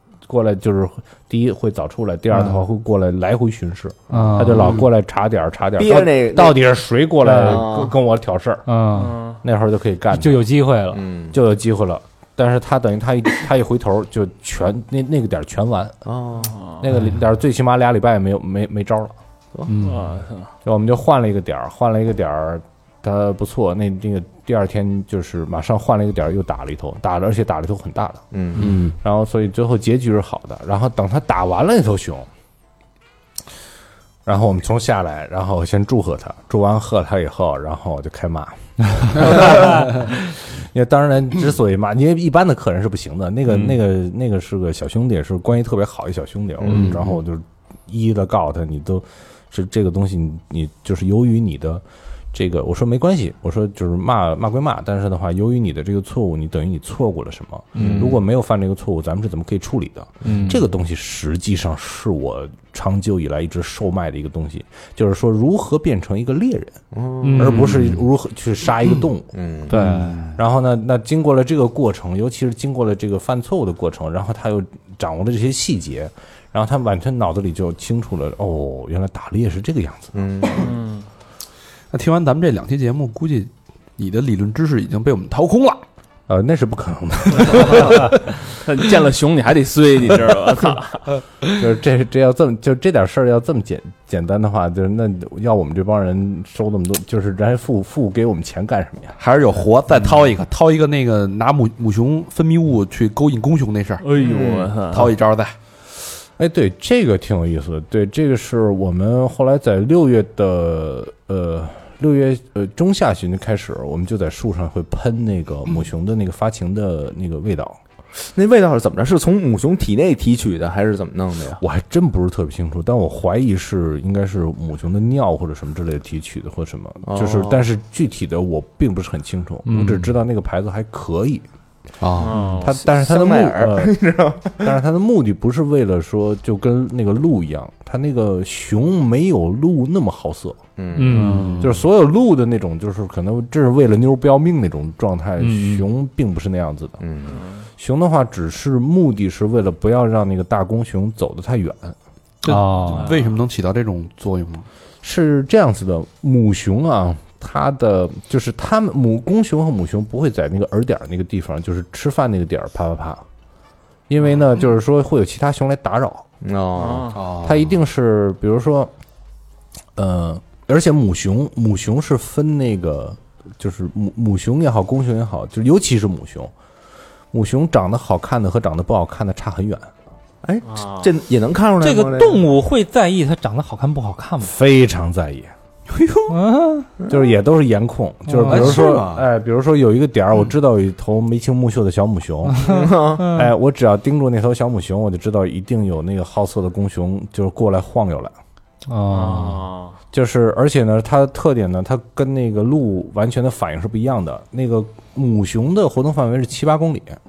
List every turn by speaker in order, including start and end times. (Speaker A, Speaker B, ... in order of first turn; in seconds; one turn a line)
Speaker A: 0.3-8.7
Speaker B: 4.1-4.8
Speaker C: 4.6-4.8
Speaker D: 5.8-6.6
Speaker B: 7.2-7.7
Speaker D: 7.3-7.9
Speaker B: 8.7-9.2
Speaker E: 8.9-9.4
Speaker A: 9.4-10.4
Speaker B: 10.1-11.0
Speaker D: 10.9-11.4
Speaker A: 11.3-16.0
Speaker D: 16.1-16.6
Speaker E: 16.6-16.8
Speaker A: 16.8-19.1
Speaker B: 19.7-20.1
Speaker E: 19.8-20.5
Speaker A: 20.6-32.3
Speaker D: 28.3-28.6
Speaker C: 28.6-28.9
Speaker A: 34.2-66.8
Speaker C: 39.2-39.5
Speaker D: 46.7-46.9
Speaker C: 46.7-47.1
Speaker B: 57.7-58.1
Speaker D: 57.8-58.1
Speaker B: 60.2-60.6
Speaker D: 66.9-67.7
Speaker B: 67.2-68.0
Speaker A: 67.3-80.2
Speaker D: 69.3-69.7
Speaker B: 69.7-70.4
Speaker D: 80.1-80.8
Speaker E: 80.6-81.0
Speaker C: 81.9-85.8
Speaker A: 86.3-88.1
Speaker E: 87.4-91.1
Speaker A: 91.6-99.2
Speaker C: 99.2-105.5
Speaker E: 104.0-105.1
Speaker A: 106.4-117.8
Speaker D: 118.2-121.6
Speaker A: 121.6-131.5
Speaker D: 127.0-127.6
Speaker B: 129.7-130.2
Speaker C: 132.0-132.4
Speaker E: 132.2-132.7
Speaker A: 132.6-134.0
Speaker D: 132.6-134.7
Speaker A: 134.6-140.6
Speaker D: 140.8-141.4
Speaker B: 140.9-141.7
Speaker C: 141.1-141.8
Speaker A: 141.2-147.0
Speaker B: 145.4-145.8
Speaker D: 147.0-147.4
Speaker E: 147.3-147.6
Speaker A: 147.8-152.0
Speaker B: 152.4-153.1
Speaker C: 152.4-154.7
Speaker E: 153.0-153.3
Speaker A: 155.0-163.2
Speaker A: 164.1-166.2
Speaker D: 166.4-167.2
Speaker E: 166.8-167.2
Speaker C: 167.1-167.7
Speaker A: 167.4-168.9
Speaker A: 169.9-176.5
Speaker A: 177.3-179.9
Speaker D: 180.4-182.4
Speaker E: 180.7-181.1
Speaker B: 181.8-184.5
Speaker A: 184.4-185.5
Speaker C: 185.9-186.3
Speaker B: 186.3-186.9
Speaker A: 187.1-198.3
Speaker B: 188.3-188.8
Speaker C: 188.4-189.3
Speaker B: 192.5-193.5
Speaker D: 192.6-193.2
Speaker B: 198.9-199.7
Speaker E: 199.1-199.9
Speaker A: 200.1-207.2